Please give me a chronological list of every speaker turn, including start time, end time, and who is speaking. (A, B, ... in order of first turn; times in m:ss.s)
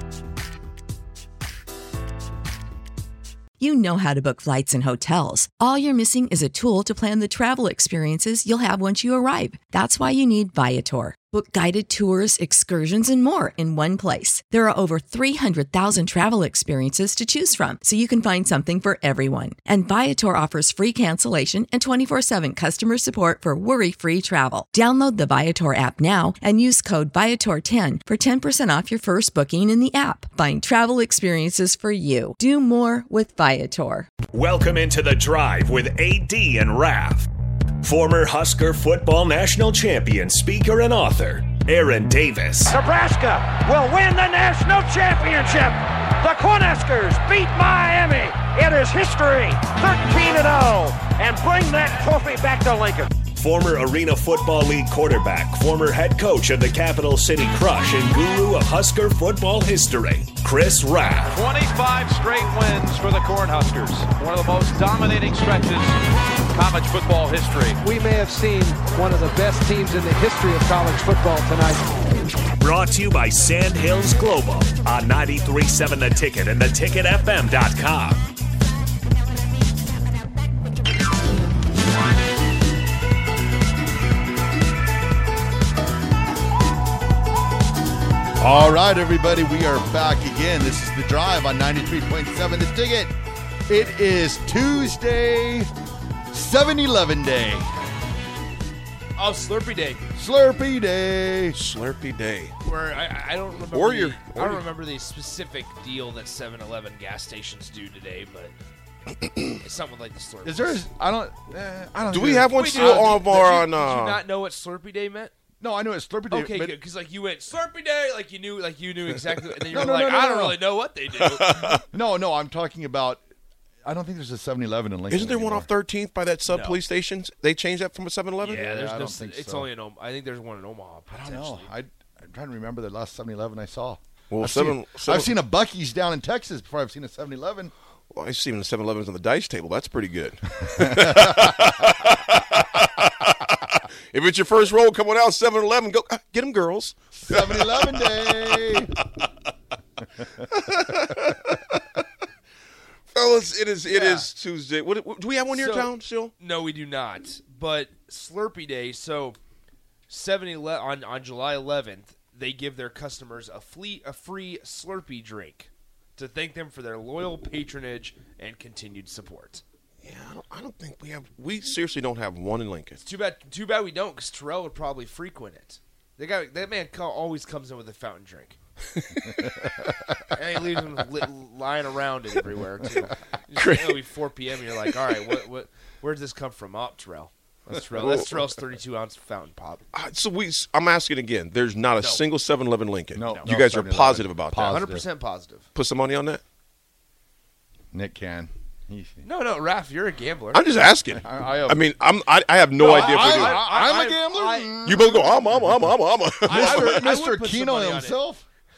0:03.6-0:34.1 A
0:34.3-0:42.8 B
0:42.7-0:53.1 C
0:53.3-1:01.4 B
1:01.3-1:06.0 D
1:06.5-1:07.8 D
1:07.8-1:11.7 E
1:12.6-1:18.2 B
1:28.4-1:33.1 F
1:33.7-1:35.7 F
1:36.3-1:37.7 F
1:39.2-1:40.0 G
1:40.2-1:41.6 F
1:41.5-1:42.5 H
1:42.6-1:48.5 G
1:43.7-1:44.6 H
1:49.6-1:50.8 G
1:50.4-1:53.2 F
1:52.1-1:54.2 H
1:52.5-1:55.3 G
1:55.6-1:56.8 F
1:56.3-2:01.8 G
1:59.7-2:00.6 F
2:01.1-2:01.8 H
2:01.9-2:03.2 F
2:03.8-2:05.7 F
2:05.1-2:08.9 H
2:06.5-2:06.8 G
2:08.4-2:11.7 G
2:08.6-2:09.7 F
2:11.1-2:17.7 F
2:14.3-2:15.3 H
2:18.1-2:28.1 H
2:20.7-2:21.7 F
2:27.2-2:28.9 F
2:30.4-2:31.8 H
2:33.1-2:36.3 H
2:33.9-2:34.2 G
2:35.5-2:39.4 G
2:40.1-2:49.6 G
2:50.0-2:53.0 H
2:53.0-2:58.6 G
2:59.0-2:59.5 H
3:00.3-3:09.8 G
3:03.6-3:04.0 H
3:07.9-3:08.4 H
3:09.9-3:14.8 H
3:13.1-3:15.0 F
3:14.6-3:15.7 G
3:15.7-3:16.4 H
3:17.9-3:19.2 F
3:19.2-3:20.6 G
3:20.5-3:23.7 H
3:21.1-3:21.8 F
3:22.8-3:25.8 F
3:22.8-3:24.9 G
3:24.8-3:27.0 H
3:26.4-3:28.2 G
3:26.4-3:28.4 F